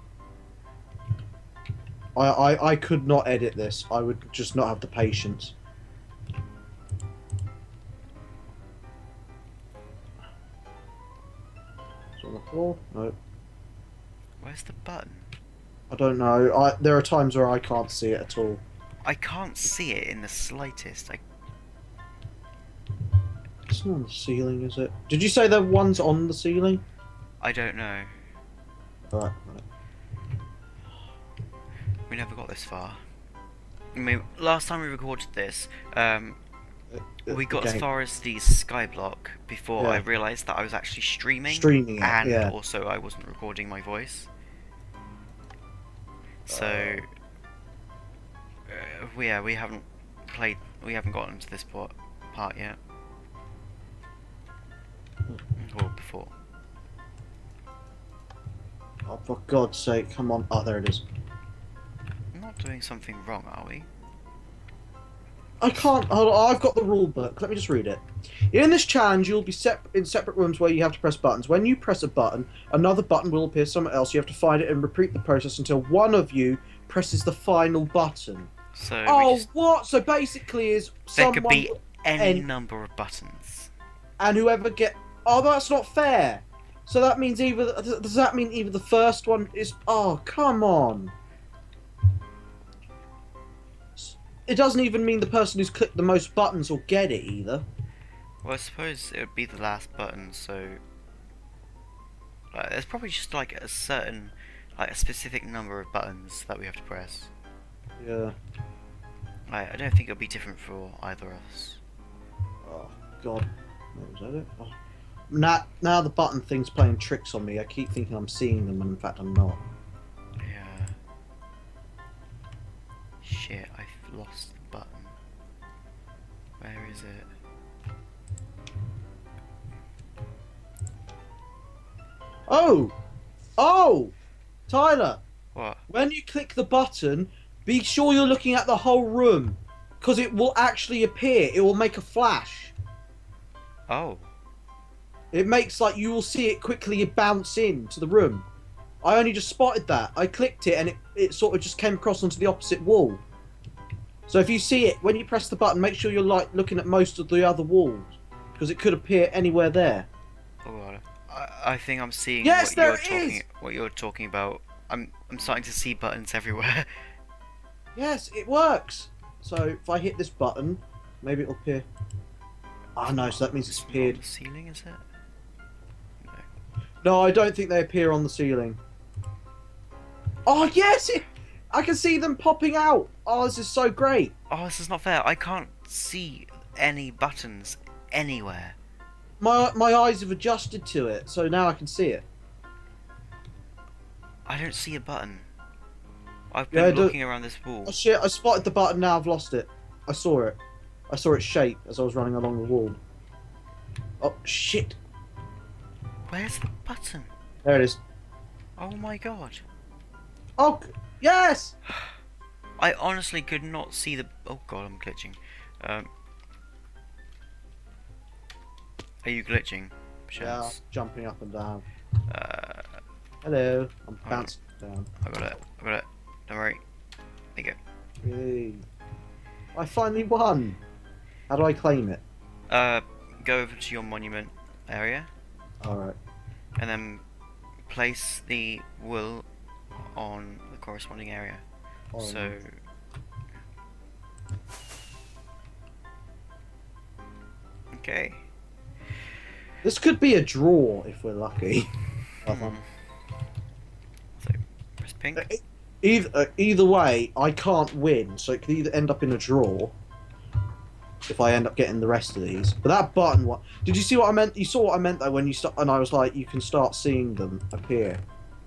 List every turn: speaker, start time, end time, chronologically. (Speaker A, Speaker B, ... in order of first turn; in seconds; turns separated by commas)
Speaker A: 2.1-5.5, Speaker A: 12.2-13.2, Speaker B: 14.4-15.3, Speaker A: 15.9-18.6, Speaker B: 19.0-21.2, Speaker A: 23.7-26.8, Speaker B: 27.4-28.1, Speaker A: 29.1-29.6, Speaker B: 32.1-33.0, Speaker B: 33.9-36.4, Speaker A: 36.9-37.8, Speaker B: 37.3-44.3, Speaker A: 39.8-40.0, Speaker A: 41.5-42.5, Speaker B: 46.5-47.1, Speaker A: 46.5-47.0, Speaker B: 48.7-52.8, Speaker B: 55.6-56.3, Speaker A: 59.1-61.0, Speaker B: 62.3-63.9, Speaker A: 65.6-78.5, Speaker B: 78.7-79.5, Speaker A: 79.0-82.5, Speaker B: 81.2-83.7, Speaker A: 84.2-91.1, Speaker A: 94.0-97.7, Speaker B: 98.4-100.8, Speaker B: 102.5-107.3, Speaker A: 108.0-108.3, Speaker B: 109.5-111.8, Speaker A: 112.6-114.7, Speaker A: 115.3-119.6, Speaker B: 120.4-120.9, Speaker B: 123.2-125.2, Speaker B: 126.6-127.3, Speaker A: 132.5-132.9, Speaker A: 133.6-134.1, Speaker A: 134.7-135.2, Speaker B: 135.5-135.8, Speaker A: 135.9-142.7, Speaker B: 143.9-144.3, Speaker A: 145.3-148.4, Speaker A: 149.0-153.2, Speaker A: 154.3-160.1, Speaker B: 160.6-167.0, Speaker A: 162.4-163.4, Speaker A: 167.9-171.8, Speaker A: 173.0-174.2, Speaker B: 173.0-175.0, Speaker B: 176.2-176.5, Speaker A: 177.0-178.8, Speaker A: 180.4-184.3, Speaker B: 184.5-188.8, Speaker A: 189.4-192.2, Speaker B: 194.4-195.5, Speaker B: 196.5-198.0, Speaker A: 196.7-197.2, Speaker A: 197.8-203.0, Speaker A: 204.2-205.0, Speaker B: 206.3-207.3, Speaker A: 207.6-208.0, Speaker B: 208.8-209.6, Speaker A: 210.6-211.7, Speaker B: 212.8-216.1, Speaker B: 219.2-220.8, Speaker A: 220.4-221.8, Speaker B: 222.3-223.0, Speaker A: 223.4-225.1, Speaker B: 224.2-224.5, Speaker B: 225.2-226.8, Speaker A: 228.2-228.8, Speaker A: 229.7-230.8, Speaker A: 231.5-232.2, Speaker B: 232.7-235.3, Speaker A: 235.8-236.2, Speaker B: 236.8-237.2, Speaker B: 237.9-239.4, Speaker B: 240.0-241.6, Speaker A: 242.1-242.6, Speaker B: 242.2-242.7, Speaker B: 247.9-248.4, Speaker A: 249.8-251.9, Speaker A: 252.4-252.8, Speaker B: 252.4-252.8, Speaker B: 254.4-255.5, Speaker A: 255.3-259.9, Speaker A: 261.3-268.2